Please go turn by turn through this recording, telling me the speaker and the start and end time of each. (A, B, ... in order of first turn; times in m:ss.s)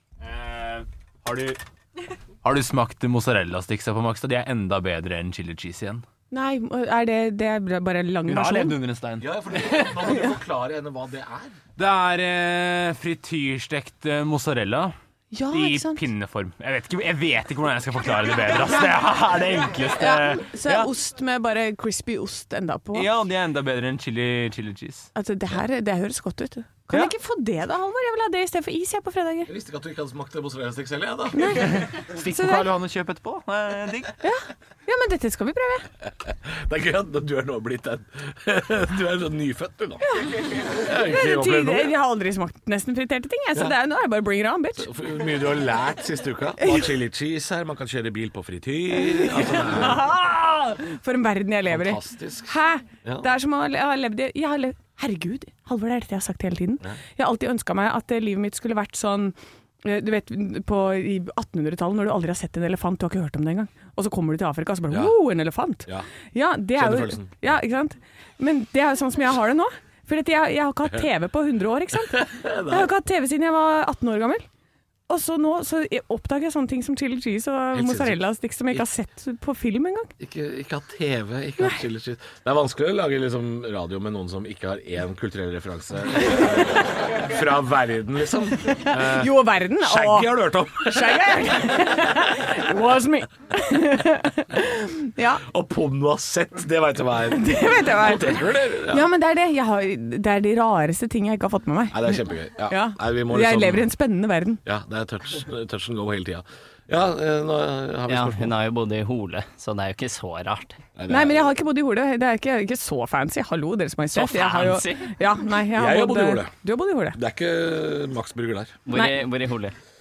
0:00.2-0:01.6 A
0:02.4-0:06.0 A
0:06.3-0:08.8 B
0:08.3-0:09.3 A
0:09.2-0:11.6 C
0:11.8-0:14.9 A
0:15.3-0:16.0 B
0:15.5-0:20.9 A
0:20.0-0:23.1 B
0:22.9-0:25.1 A
0:25.1-0:29.5 B
0:29.5-0:31.7 C
0:31.3-0:32.7 B
0:31.6-0:34.1 A
0:34.2-0:35.9 B
0:36.3-0:40.0 C
0:40.1-0:44.9 B
0:40.7-0:41.9 C
0:44.8-0:50.1 C
0:46.6-0:46.9 B
0:48.9-1:14.4 B
0:51.7-0:53.3 C
1:04.9-1:05.2 C
1:06.7-1:07.6 C
1:12.1-1:12.9 C
1:15.1-1:20.1 B
1:17.7-1:18.8 C
1:20.2-1:32.0 C
1:28.7-1:35.4 B
1:35.4-1:39.1 C
1:37.3-1:44.6 B
1:41.9-1:43.9 C
1:44.6-1:48.6 C
1:48.1-1:50.8 D
1:51.0-1:51.5 C
1:51.1-1:57.2 B
1:54.1-1:55.1 D
1:55.7-1:56.5 C
1:57.1-1:58.8 C
1:58.8-1:59.7 D